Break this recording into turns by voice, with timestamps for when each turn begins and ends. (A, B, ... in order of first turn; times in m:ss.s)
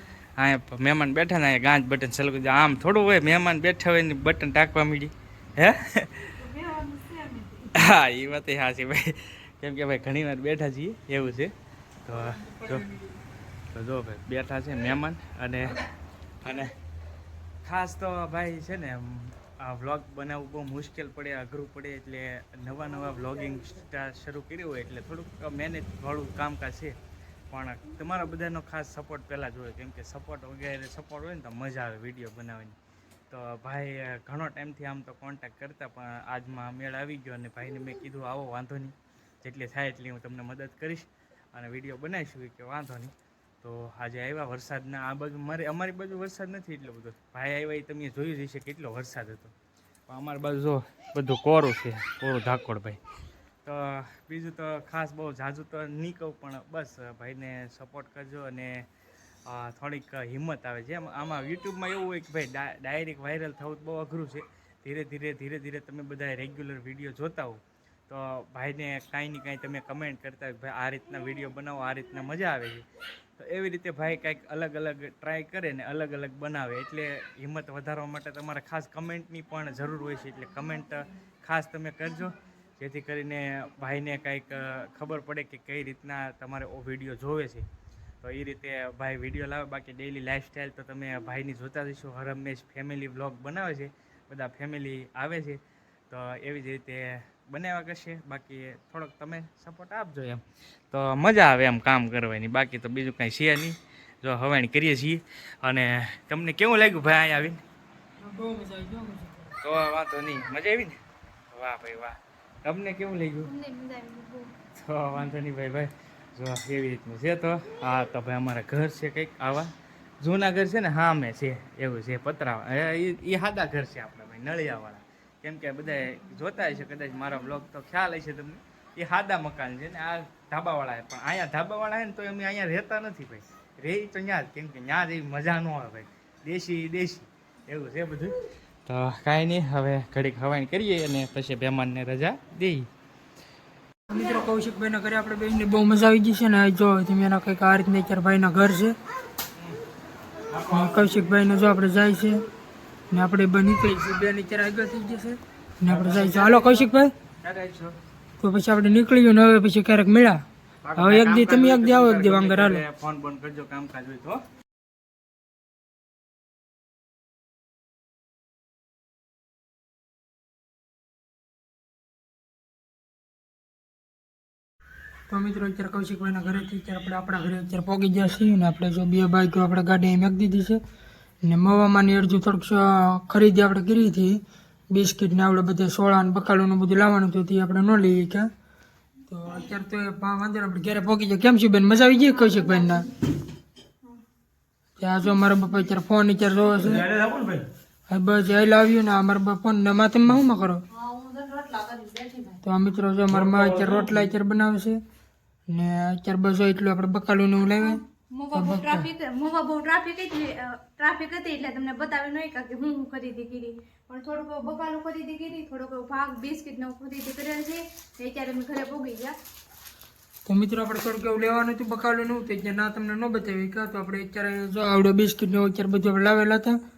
0:00.4-0:06.4 A
0:06.5-0:07.7 B
0:07.6-0:12.9 A
0:12.4-0:12.7 B
0:13.7-0:15.8 A
0:16.4-0:16.7 A
0:17.6-0:26.9 A
0:27.5-0:32.8 A
0:33.3-0:49.5 A
0:50.1-0:53.0 A
0:53.6-0:58.8 A
0:59.4-1:12.8 A
1:13.4-1:27.6 A
1:28.2-1:47.6 A
1:48.2-1:49.5 B
1:49.6-1:51.0 A
1:51.5-1:53.5 A
1:53.4-1:54.5 C
1:54.8-2:18.3 A
2:18.8-2:22.9 A
2:24.1-2:28.9 B
2:30.5-2:31.0 A
2:30.7-2:32.4 B
2:33.1-2:37.1 B
2:35.9-2:36.9 A
2:37.4-2:38.0 A
2:38.4-2:40.4 B
2:40.8-2:44.4 A
2:41.0-2:42.8 B
2:55.3-3:00.8 B
3:01.4-3:04.4 B
3:04.9-3:08.5 B
3:09.3-3:13.1 B
3:12.4-3:13.0 C
3:15.0-3:17.0 B
3:16.8-3:17.7 A
3:18.1-3:20.8 B
3:20.9-3:22.6 C
3:22.6-3:25.0 B
3:23.3-3:24.4 A
3:25.7-3:28.0 B
3:27.7-3:39.4 C
3:28.5-3:29.1 B
3:40.4-3:46.8 B